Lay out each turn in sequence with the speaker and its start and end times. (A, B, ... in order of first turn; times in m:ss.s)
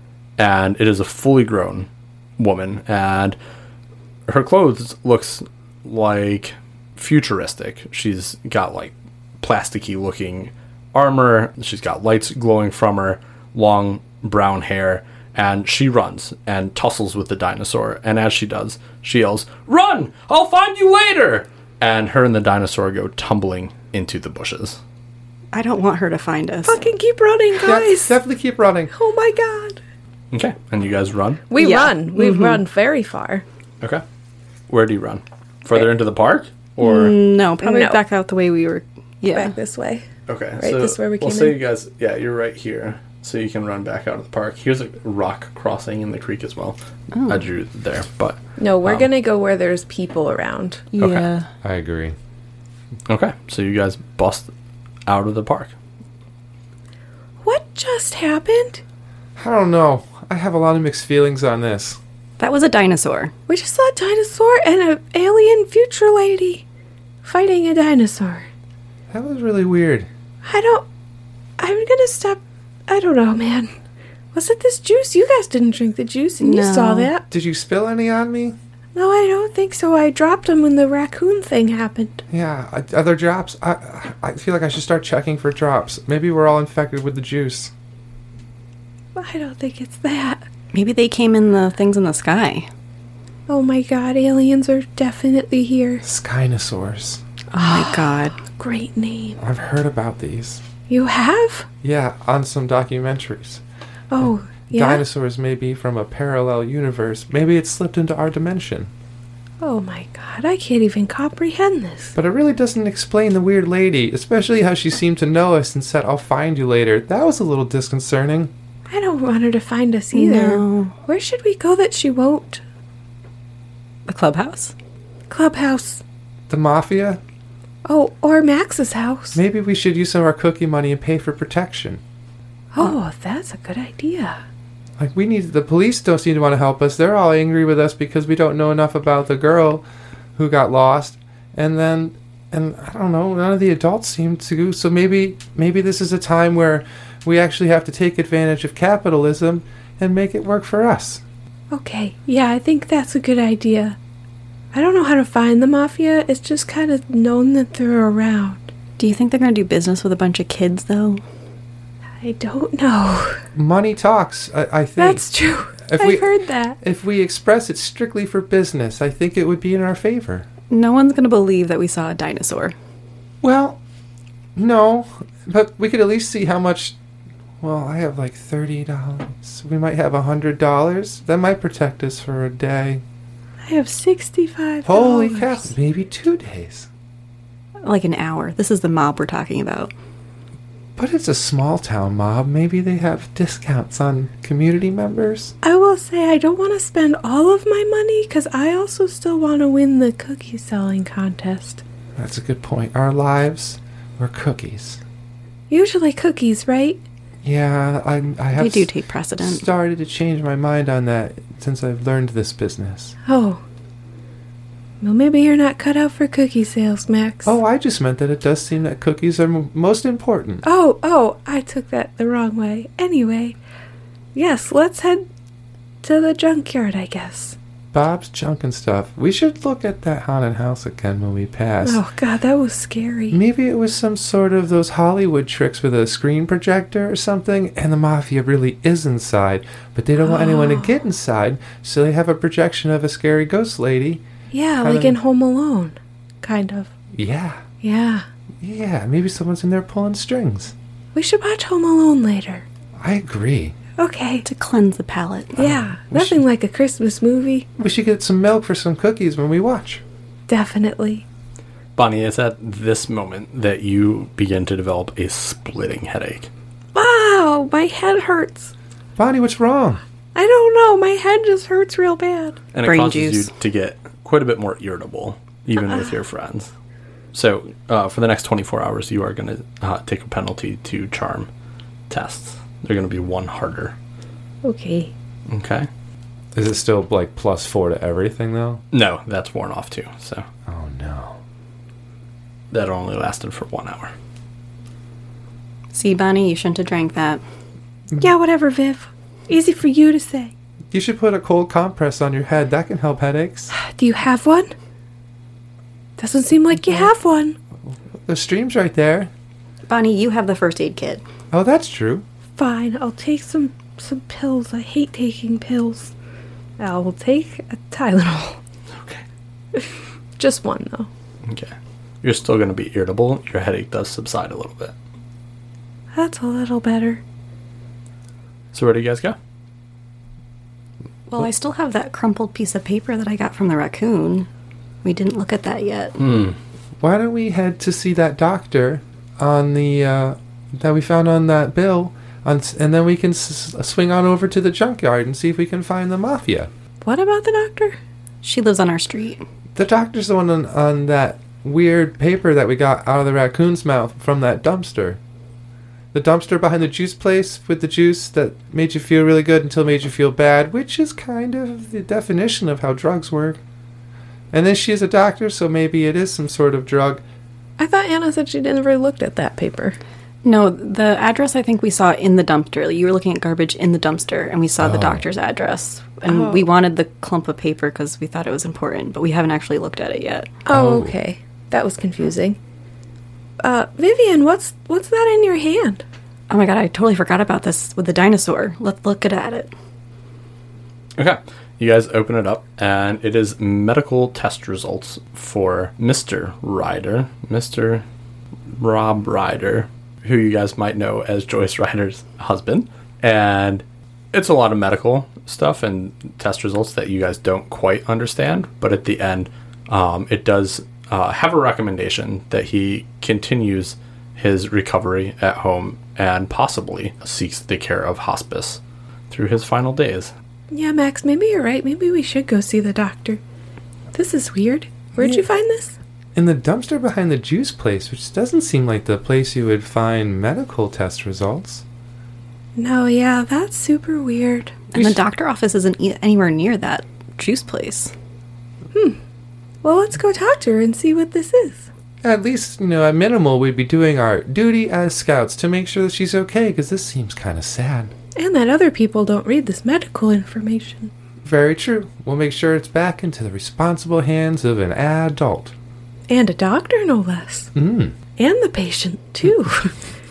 0:00.4-0:03.4 A
0:04.3-0:24.8 A
0:25.5-0:26.8 B
0:26.7-0:28.2 C
0:27.6-0:28.9 D
0:28.9-0:29.8 C
0:30.3-0:31.4 A
0:31.5-0:33.4 C
0:31.6-0:32.6 B
0:34.7-0:37.2 A
0:36.8-0:39.5 B
0:37.6-0:38.0 C
0:39.3-0:40.1 C
0:40.3-0:49.1 A
0:40.6-0:41.6 C
0:47.1-0:47.4 B
0:48.6-0:50.8 C
0:50.9-0:51.5 B
0:51.0-0:51.3 A
0:51.6-0:52.2 D
0:53.1-0:54.5 A
0:55.1-0:55.7 A
0:57.4-0:58.8 C
0:59.4-1:02.0 D
1:02.4-1:03.3 B
1:03.5-1:06.6 C
1:07.2-1:08.5 C
1:09.1-1:10.1 D
1:10.4-1:10.9 C
1:11.6-1:13.7 C
1:14.3-1:17.3 C
1:16.4-1:17.1 B
1:17.3-1:18.6 D
1:19.0-1:22.2 C
1:22.3-1:27.7 D
1:29.2-1:30.5 C
1:30.7-1:32.7 B
1:33.5-1:36.0 C
1:36.0-1:37.2 D
1:37.5-1:38.4 B
1:37.6-1:39.4 C
1:39.4-1:40.6 D
1:40.9-1:41.7 C
1:41.8-1:43.6 D
1:44.1-1:45.0 C
1:44.2-1:48.9 D
1:49.6-1:52.2 C
1:52.2-1:58.5 D
1:58.9-2:02.6 C
2:00.1-2:00.9 B
2:04.1-2:04.7 B
2:05.3-2:06.0 C
2:06.5-2:07.2 D
2:07.8-2:09.4 C
2:09.4-2:12.0 D
2:12.7-2:14.4 C
2:15.0-2:19.8 D
2:20.4-2:31.2 D
2:31.7-2:34.0 C
2:34.7-2:38.7 C
2:39.0-2:41.2 B
2:42.2-2:43.4 C
2:43.5-2:45.3 D
2:45.0-2:46.8 C
2:45.8-2:50.5 D
2:50.7-2:52.8 B
2:53.4-2:53.8 D
2:54.6-2:57.0 D
2:57.6-3:03.0 D
3:03.6-3:05.7 C
3:04.8-3:06.9 D
3:07.8-3:09.9 B
3:11.0-3:15.5 D
3:15.6-3:21.8 C
3:22.2-3:25.0 D
3:25.7-3:27.0 C
3:27.4-3:33.2 D
3:28.6-3:29.6 B
3:33.3-3:33.6 C
3:35.0-3:37.5 C
3:37.4-3:40.6 D
3:40.6-3:43.6 C
3:44.4-3:45.3 C
3:46.0-3:47.6 C
3:47.9-3:52.0 D
3:51.8-3:53.4 C
3:53.3-4:04.2 D
4:00.2-4:00.9 C
4:04.5-4:06.9 C
4:04.8-4:05.2 D
4:07.1-4:07.6 D
4:07.8-4:08.3 C
4:08.6-4:10.7 D
4:11.2-4:12.6 C
4:13.0-4:13.8 D
4:14.0-4:14.4 C
4:14.4-4:15.6 B
4:15.6-4:16.4 D
4:15.6-4:17.7 C
4:17.8-4:20.0 D
4:20.5-4:21.2 C
4:22.0-4:26.5 A
4:27.0-4:28.7 C
4:29.2-4:30.0 D
4:30.4-4:32.6 C
4:32.7-4:36.7 A
4:32.8-4:33.5 B
4:37.3-4:41.5 A
4:42.1-4:44.0 A
4:44.6-4:45.1 C
4:45.5-4:45.9 A
4:46.5-4:48.8 D
4:48.9-4:50.5 A
4:50.7-4:51.4 D
4:52.7-4:54.1 A
4:55.9-4:57.4 B
4:58.2-5:00.5 C
5:00.9-5:03.7 D
5:03.7-5:04.7 C
5:06.2-5:07.6 C
5:08.3-5:09.3 D
5:09.9-5:11.2 B
5:11.5-5:12.2 D
5:12.6-5:16.1 C
5:16.8-5:18.6 C
5:19.8-5:21.1 C
5:21.4-5:24.9 A
5:26.1-5:27.2 C
5:28.7-5:29.4 A
5:31.3-5:34.5 B
5:35.0-5:36.2 B
5:36.2-5:36.6 A
5:37.0-5:46.7 D
5:47.0-5:48.0 C
5:48.4-5:49.4 B
5:49.8-5:55.2 D
5:56.1-6:03.6 D
6:04.5-6:07.2 D
6:07.8-6:10.0 C
6:10.4-6:20.5 B
6:14.8-6:15.2 D
6:20.6-6:22.6 C
6:20.7-6:21.2 D
6:23.6-6:26.0 C
6:26.5-6:29.7 B
6:31.2-6:38.0 A
6:38.7-7:00.3 A
7:00.7-7:03.4 C
7:04.1-7:06.0 C
7:06.4-7:11.8 D
7:12.8-7:14.8 C
7:14.9-7:18.1 B
7:18.9-7:19.2 C
7:19.8-7:21.9 C
7:22.2-7:28.1 D
7:28.4-7:31.1 C
7:31.4-7:35.7 D
7:36.3-7:37.7 C
7:37.8-7:38.2 D
7:38.4-7:40.0 C